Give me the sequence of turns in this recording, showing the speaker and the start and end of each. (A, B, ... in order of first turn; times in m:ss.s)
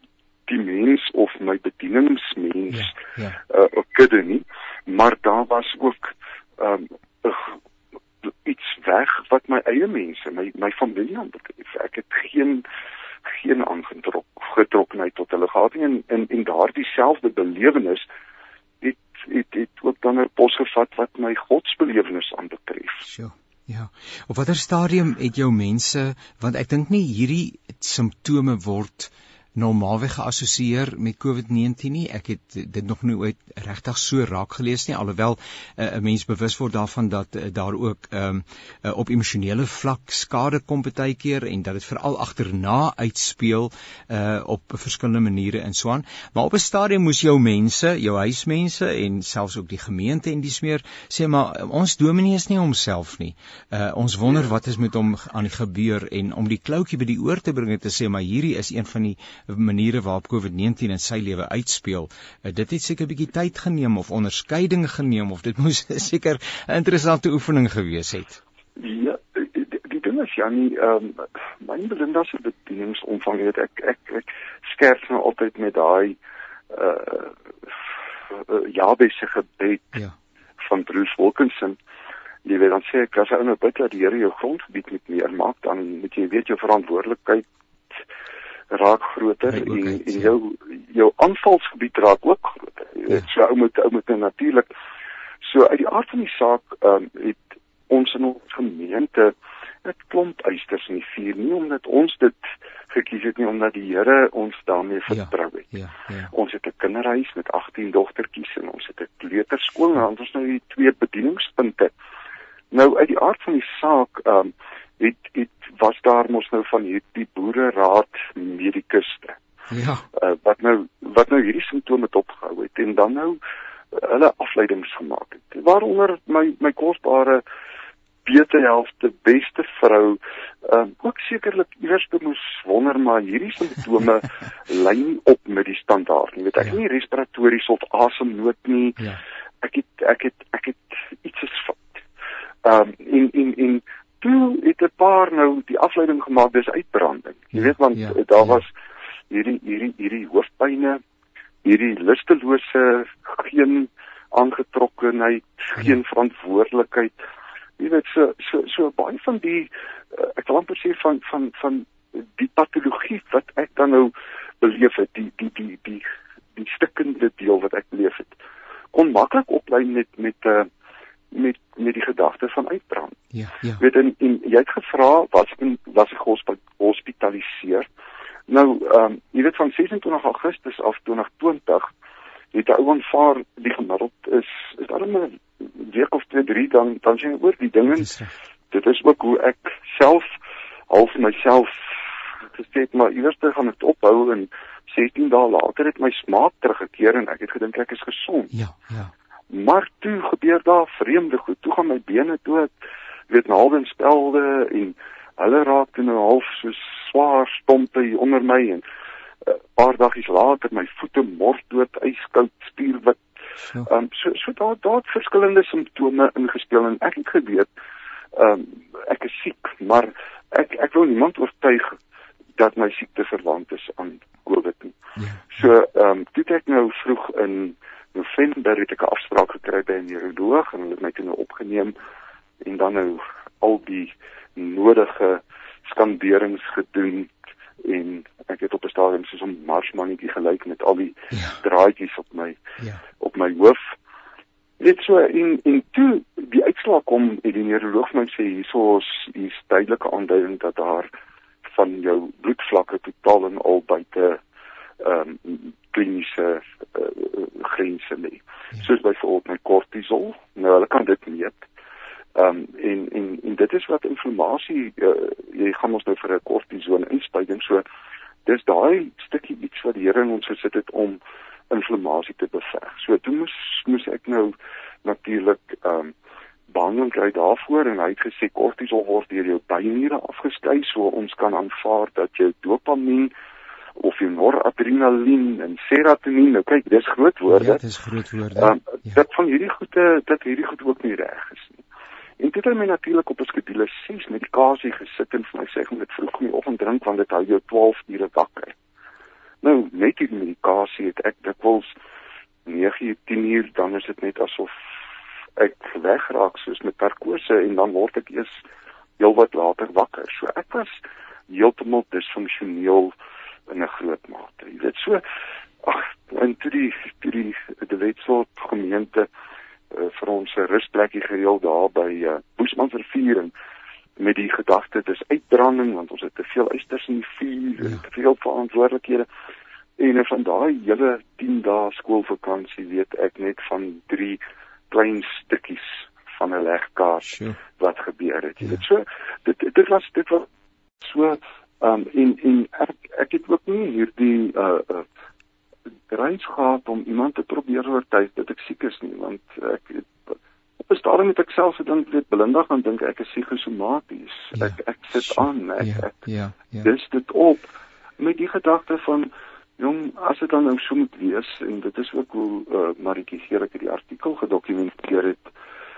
0:00.5-0:02.9 A
0:02.7-0:03.4 B
0:03.5-0:07.5 A
0:08.2-0:12.6 A
0:13.3-0:18.1 A
0:18.8-0:23.0 A
0:23.0-1:08.4 B
1:08.8-1:16.2 A
1:16.7-1:17.7 A
1:18.3-1:20.0 A
1:20.6-1:21.8 A
1:22.4-1:27.4 A
1:28.7-1:34.7 A
1:29.5-1:30.3 B
1:35.4-1:39.3 A
1:39.8-1:45.7 A
1:45.1-1:46.3 B
1:46.3-1:51.9 A
1:52.7-1:59.4 A
1:59.7-2:00.0 B
2:00.1-2:03.4 A
2:03.9-2:07.4 A
2:08.2-2:19.0 A
2:19.6-2:22.0 A
2:22.6-2:28.7 A
2:27.6-2:28.6 B
2:29.3-2:31.0 A
2:31.6-2:37.1 A
2:37.8-2:48.3 A
2:48.9-2:50.7 A
2:51.3-2:53.2 A
2:53.3-2:53.8 B
2:53.8-2:57.9 A
2:58.5-3:01.9 A
3:02.5-3:08.1 A
3:07.9-3:08.3 B
3:08.7-3:10.3 A
3:10.9-3:18.5 A
3:18.5-3:19.1 B
3:19.5-3:22.7 A
3:23.3-3:28.8 A
3:29.4-3:33.2 A
3:33.8-3:37.7 A
3:38.3-3:42.0 A
3:42.6-3:45.0 A
3:45.2-3:45.4 B
3:45.5-3:51.9 A
3:52.6-4:02.6 A
4:01.3-4:01.6 B
4:03.2-4:03.9 A
4:04.8-4:11.1 A
4:11.6-4:14.4 A
4:15.0-4:21.6 A
4:22.3-4:27.8 A
4:28.4-4:36.1 A
4:36.7-4:43.3 A
4:44.0-4:47.8 A
4:47.5-4:49.2 B
4:48.6-4:51.8 A
4:52.4-4:58.7 A
4:59.6-5:01.9 A
5:02.6-5:04.8 A
5:05.6-5:08.6 A
5:09.2-5:13.1 A
5:13.7-5:15.2 A
5:15.8-5:19.3 A
5:19.9-5:23.5 A
5:24.2-5:29.3 A
5:30.0-5:34.4 A
5:34.9-5:40.5 A
5:37.3-5:37.6 B
5:41.0-5:45.0 A
5:46.1-5:56.2 A
5:54.6-5:56.9 B
5:56.8-6:05.5 A